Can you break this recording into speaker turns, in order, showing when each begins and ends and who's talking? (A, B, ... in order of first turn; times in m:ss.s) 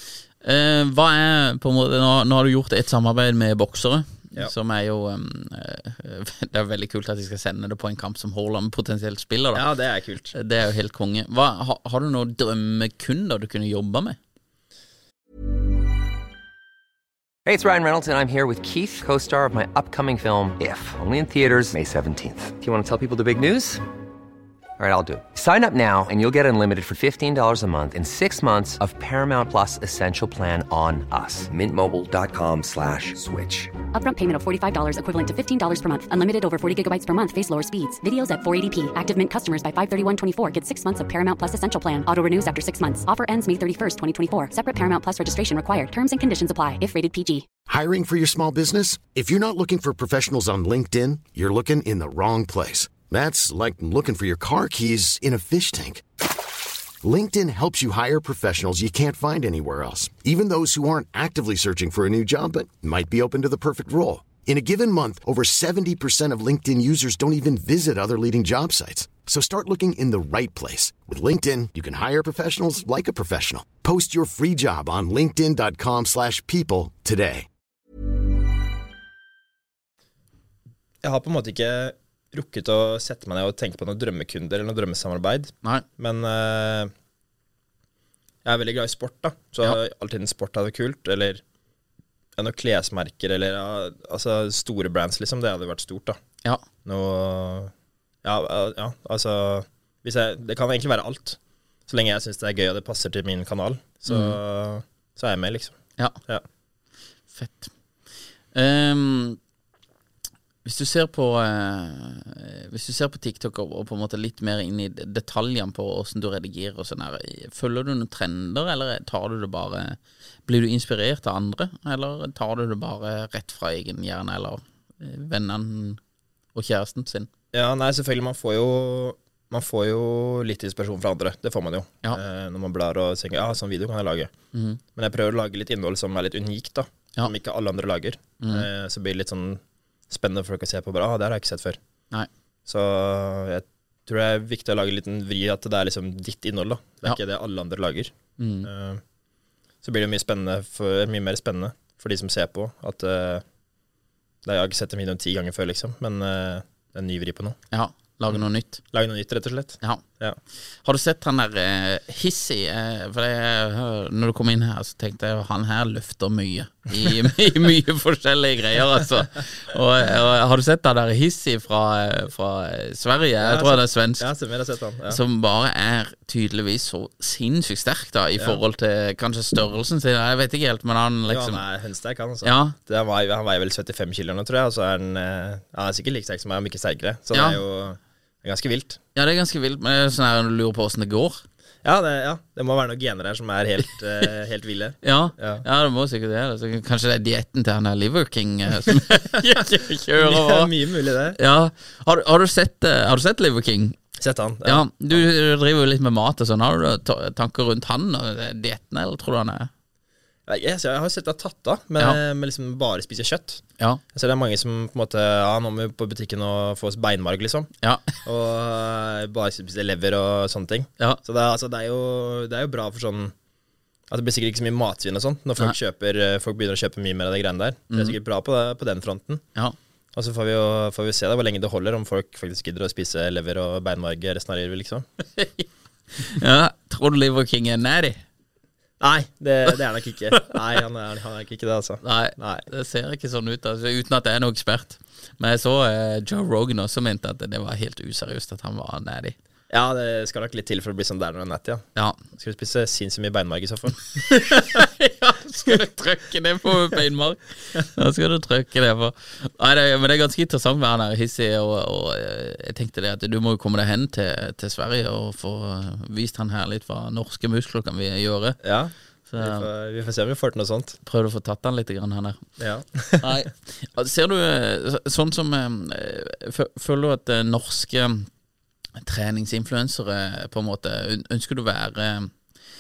0:00.4-0:09.6 A
0:09.5-0:10.3 B
0:10.3-0:14.2 A
0:17.5-0:23.8 C
0:24.8-0:33.7 C
0:33.9-0:47.5 D
0:47.7-1:17.5 E
1:21.0-1:26.9 B
1:28.4-1:31.4 B
1:32.4-1:36.2 B
1:36.8-1:37.7 B
1:38.2-1:45.8 B
1:44.1-1:44.4 A
1:47.3-1:47.7 A
1:48.5-1:49.4 A
1:50.6-2:06.0 A
2:06.6-2:07.3 A
2:07.5-2:14.3 B
2:14.5-2:14.8 A
2:14.9-2:21.8 B
2:22.7-2:28.1 B
2:28.4-2:28.7 A
2:28.6-2:29.0 B
2:29.8-2:33.4 B
2:34.4-2:37.6 B
2:37.7-2:38.8 A
2:38.9-2:40.4 B
2:40.8-2:54.3 A
2:53.4-2:55.2 B
2:55.1-3:01.6 A
3:01.3-3:09.0 B
3:02.4-3:02.8 A
3:07.3-3:07.6 A
3:09.1-3:11.4 A
3:11.8-3:15.6 B
3:15.0-3:20.7 A
3:20.2-3:21.4 B
3:21.4-3:24.0 A
3:24.2-3:25.2 B
3:24.6-3:29.7 A
3:30.5-3:37.7 B
3:37.8-3:38.1 A
3:38.2-3:43.3 B
3:44.1-3:49.4 B
3:47.9-3:48.1 A
3:50.1-3:55.0 B
3:55.4-3:58.2 A
3:59.0-4:02.7 B
4:02.0-4:09.4 A
4:09.7-4:14.7 B
4:14.2-4:28.6 A
4:28.6-4:31.0 B
4:29.3-4:29.7 A
4:31.1-4:32.4 A
4:32.6-4:33.3 B
4:33.2-4:38.3 A
4:39.0-4:42.3 A